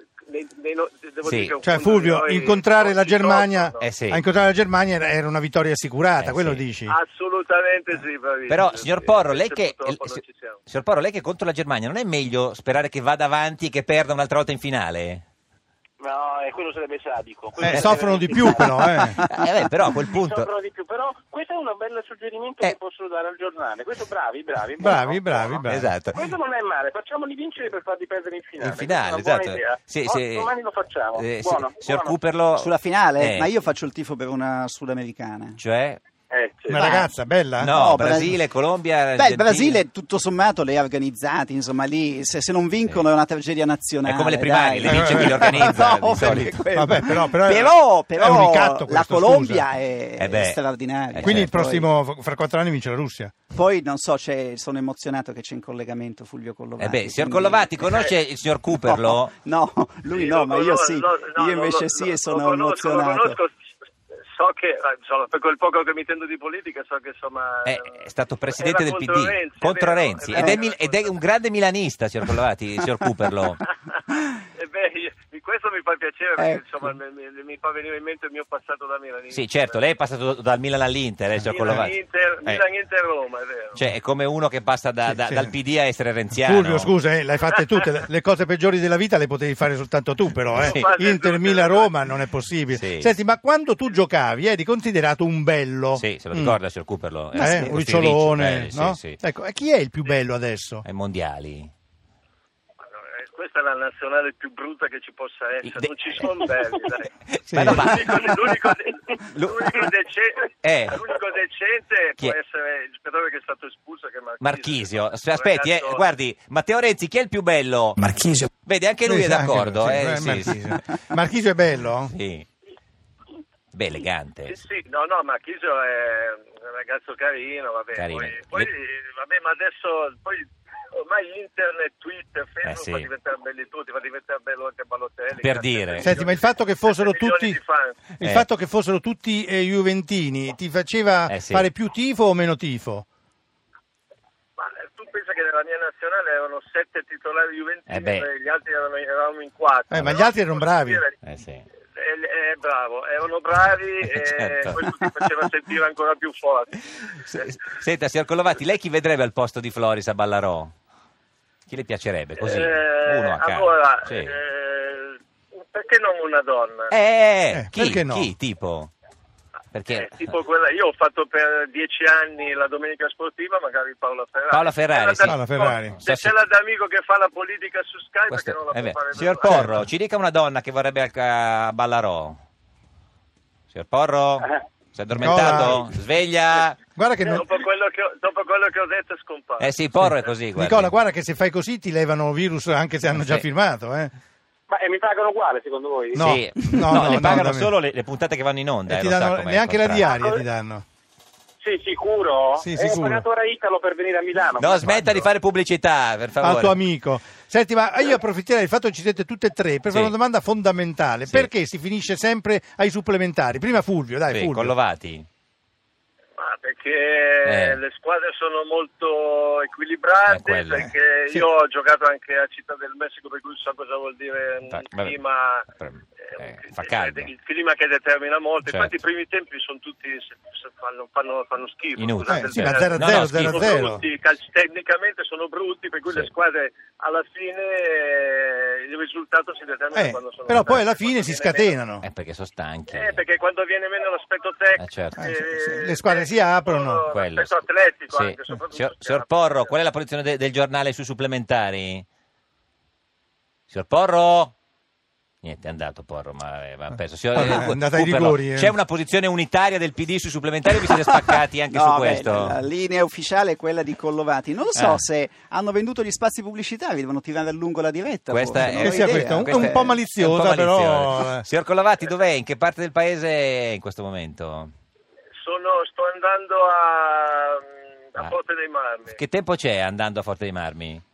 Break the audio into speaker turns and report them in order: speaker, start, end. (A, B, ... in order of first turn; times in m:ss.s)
0:00.2-0:03.8 A
0:01.2-0:01.5 B
0:01.6-0:07.0 C
0:03.8-0:04.2 B
0:06.2-0:06.6 B
0:06.9-0:10.6 A
0:08.5-0:15.2 B
0:16.0-0:19.1 D
0:17.6-0:19.2 C
0:19.0-0:20.5 B
0:19.9-0:25.6 D
0:24.8-0:25.9 C
0:25.6-0:26.2 B
0:26.1-0:32.2 D
0:28.6-0:30.6 B
0:31.1-0:33.5 B
0:32.6-0:35.6 E
0:35.6-0:36.0 B
0:36.3-0:37.0 D
0:36.7-0:37.7 C
0:36.7-0:38.4 E
0:37.6-0:39.8 B
0:39.2-0:51.9 E
0:44.0-0:46.6 B
0:44.8-0:45.9 C
0:46.5-0:49.8 C
0:50.2-0:51.5 B
0:50.8-0:53.3 C
0:53.5-0:58.1 E
0:56.8-0:59.3 B
0:58.8-1:03.4 E
1:00.1-1:03.6 A
1:04.3-1:11.1 A
1:07.6-1:13.6 B
1:10.3-1:10.6 E
1:14.5-1:19.8 A
1:16.4-1:16.6 E
1:19.3-1:22.6 B
1:21.5-1:23.8 A
1:23.8-1:26.9 B
1:25.1-1:25.5 C
1:26.3-1:36.6 C
1:30.5-1:30.8 B
1:30.5-1:31.9 A
1:32.7-1:33.1 B
1:35.9-1:39.2 B
1:37.3-1:40.8 C
1:40.8-1:41.7 B
1:43.0-1:56.0 A
1:45.6-1:46.5 B
1:47.3-1:48.7 B
1:47.5-1:47.8 C
1:49.3-1:49.9 B
1:50.6-1:51.0 B
1:54.4-1:58.0 B
1:58.6-2:00.8 B
1:59.0-2:02.1 C
2:02.0-2:02.5 B
2:03.7-2:04.6 B
2:04.5-2:18.0 A
2:08.0-2:08.7 B
2:12.6-2:13.1 B
2:15.3-2:16.1 B
2:16.0-2:17.6 C
2:18.2-2:23.0 C
2:18.2-2:18.4 B
2:21.3-2:21.7 B
2:24.6-2:31.2 A
2:27.9-2:28.3 B
2:29.9-2:31.0 C
2:31.2-2:31.6 B
2:31.9-2:37.5 A
2:34.0-2:34.8 B
2:37.2-2:40.7 B
2:41.7-2:44.3 B
2:42.4-2:46.9 A
2:46.9-2:48.9 B
2:47.5-2:48.3 C
2:49.7-2:50.3 B
2:49.9-2:59.7 A
2:54.5-2:55.3 B
2:55.3-2:56.0 C
2:55.9-2:56.3 B
2:58.3-3:02.4 B
2:59.4-2:59.7 C
3:03.7-3:06.8 B
3:05.2-3:05.8 C
3:06.9-3:07.5 C
3:07.2-3:09.8 A
3:09.6-3:10.9 B
3:10.0-3:14.1 C
3:13.1-3:13.4 B
3:14.7-3:16.4 D
3:16.1-3:20.1 B
3:16.2-3:17.7 C
3:18.9-3:20.8 C
3:20.0-3:20.4 D
3:21.6-3:25.1 D
3:22.6-3:23.2 C
3:24.6-3:26.8 B
3:24.9-3:25.2 C
3:26.4-3:34.7 C
3:29.9-3:30.1 B
3:34.3-3:35.3 B
3:36.4-3:45.7 A
3:37.4-3:37.8 B
3:40.3-3:40.8 B
3:40.8-3:41.5 C
3:44.7-3:47.3 B
3:46.2-4:01.8 A
3:48.7-3:48.9 B
3:52.0-3:53.9 B
3:52.3-3:54.0 C
3:59.9-4:02.0 C
4:02.0-4:03.2 B
4:02.9-4:09.7 A
4:04.8-4:05.2 B
4:05.2-4:07.1 C
4:07.1-4:07.6 B
4:08.1-4:12.0 B
4:13.7-4:14.5 B
4:15.4-4:22.6 B
4:17.3-4:18.7 C
4:21.7-4:30.0 E
4:24.7-4:25.0 B
4:28.3-4:34.7 B
4:28.6-4:31.4 C
4:35.4-4:39.2 A
4:39.1-4:41.0 B